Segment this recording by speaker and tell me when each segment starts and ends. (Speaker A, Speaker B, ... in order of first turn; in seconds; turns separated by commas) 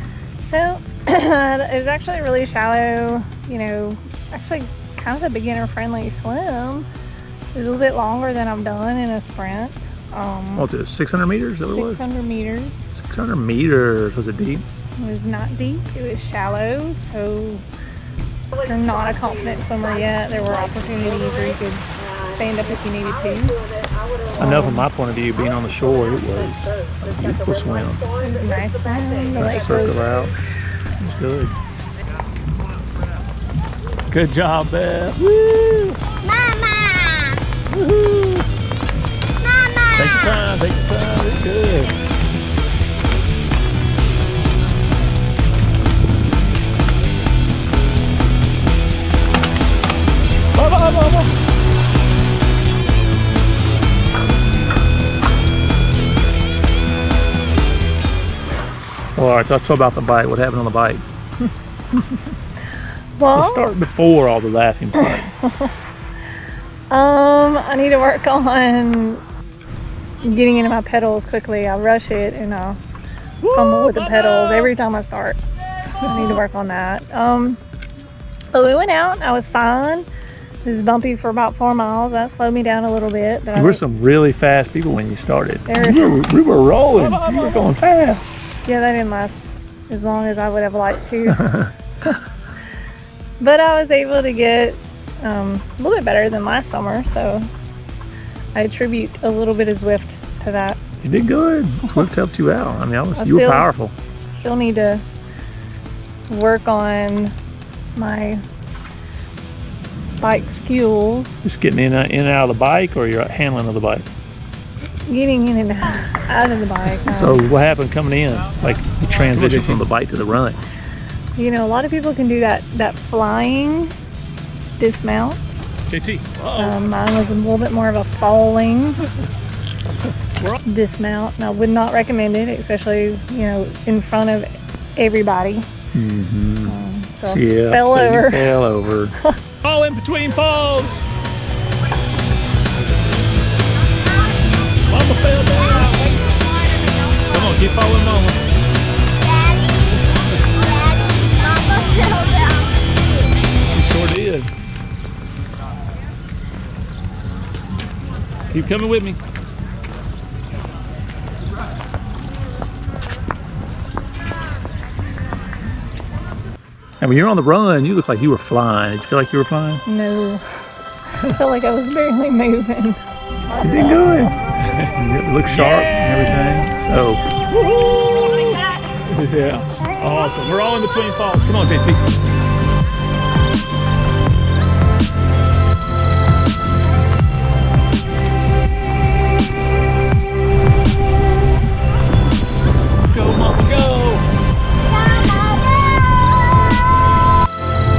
Speaker A: 0.4-6.9, Speaker A: 7.5-10.7, Speaker B: 10.6-12.0, Speaker A: 11.7-12.8, Speaker B: 12.9-14.6, Speaker A: 15.0-17.6, Speaker A: 18.6-23.6, Speaker A: 24.4-24.9, Speaker B: 24.4-28.1, Speaker A: 28.2-30.0, Speaker B: 29.4-30.4, Speaker B: 31.0-31.6, Speaker B: 34.1-36.1, Speaker C: 36.2-37.4, Speaker B: 37.7-38.5, Speaker C: 39.4-40.0, Speaker B: 39.9-41.9, Speaker B: 50.5-51.3, Speaker B: 59.0-61.0, Speaker A: 63.2-63.7, Speaker B: 63.3-65.3, Speaker A: 64.9-65.7, Speaker A: 66.9-69.2, Speaker A: 70.2-72.8, Speaker B: 73.4-74.7, Speaker A: 73.5-75.4, Speaker A: 76.0-77.6, Speaker A: 78.5-80.1, Speaker A: 80.6-83.8, Speaker B: 83.5-88.3, Speaker A: 85.7-86.2, Speaker A: 86.9-87.7, Speaker A: 88.7-91.5, Speaker B: 91.3-91.7, Speaker A: 93.4-97.5, Speaker A: 98.5-100.8, Speaker B: 101.0-103.9, Speaker A: 103.2-103.7, Speaker A: 104.3-105.0, Speaker A: 106.3-107.3, Speaker A: 107.9-108.4, Speaker A: 110.2-111.3, Speaker B: 111.4-114.1, Speaker A: 115.0-117.4, Speaker B: 117.0-120.6, Speaker A: 121.4-123.9, Speaker A: 124.8-125.4, Speaker B: 125.9-126.9, Speaker A: 126.5-129.0, Speaker A: 130.7-135.7, Speaker B: 135.9-141.0, Speaker A: 136.7-138.5, Speaker B: 144.8-146.1, Speaker B: 147.3-148.4, Speaker C: 149.2-150.0, Speaker C: 150.9-153.0, Speaker B: 153.7-154.5, Speaker B: 158.5-159.2, Speaker B: 167.0-169.8, Speaker A: 169.8-170.4, Speaker A: 171.2-173.0, Speaker B: 173.6-178.5, Speaker B: 179.1-182.0, Speaker B: 193.1-194.2